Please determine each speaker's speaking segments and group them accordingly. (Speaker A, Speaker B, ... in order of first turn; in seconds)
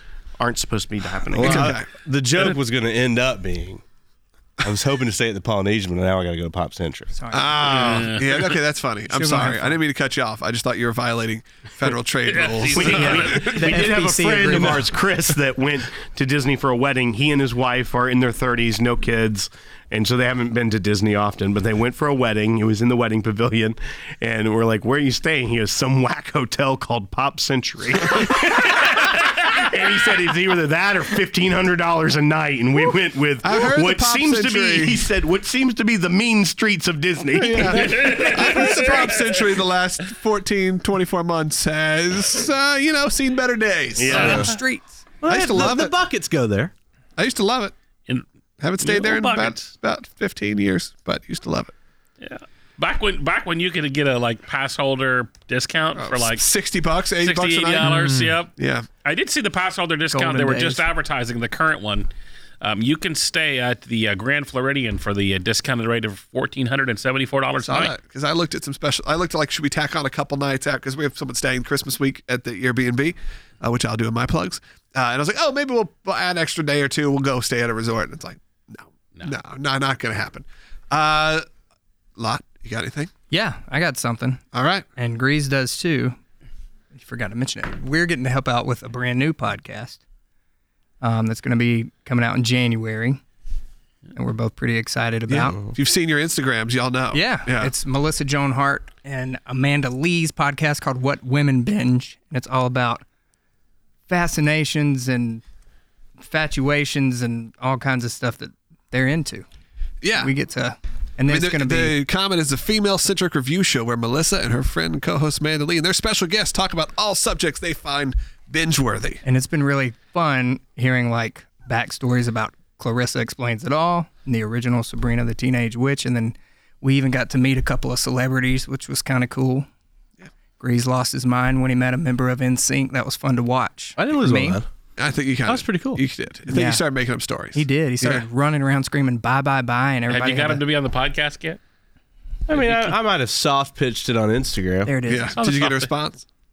Speaker A: 0.4-1.7, 12.7-38.9, 44.0-44.5
Speaker B: 1.3-3.8, 4.6-7.1, 44.1-44.5, 45.2-46.7, 134.0-134.6, 135.4-136.0, 142.5-144.9
Speaker C: 1.4-1.9, 7.3-13.5, 33.4-35.0, 37.4-44.5, 45.2-45.9, 47.2-47.7, 48.6-51.7, 55.9-57.9, 58.5-58.9, 67.6-81.4, 82.2-83.1, 84.5-84.8, 95.3-97.7, 110.0-110.3, 111.3-119.2, 135.0-138.2, 145.1-146.2
Speaker D: 7.1-8.0, 9.1-9.8, 13.2-14.9, 38.3-39.3, 44.1-45.0, 57.8-58.4, 60.1-60.8, 83.3-84.4, 85.0-86.2, 86.9-90.0, 91.0-93.2, 94.1-95.6, 97.1-103.0, 104.1-105.4, 106.2-109.4, 110.1-112.0, 119.2-129.7, 130.6-134.6, 136.4-136.8, 137.5-140.6, 144.8-145.4
Speaker E: 7.6-8.6, 12.3-13.8, 37.7-39.0, 48.8-49.7, 52.2-56.5, 57.2-58.5, 59.0-62.1, 62.6-67.9, 140.1-141.6, 145.4-145.9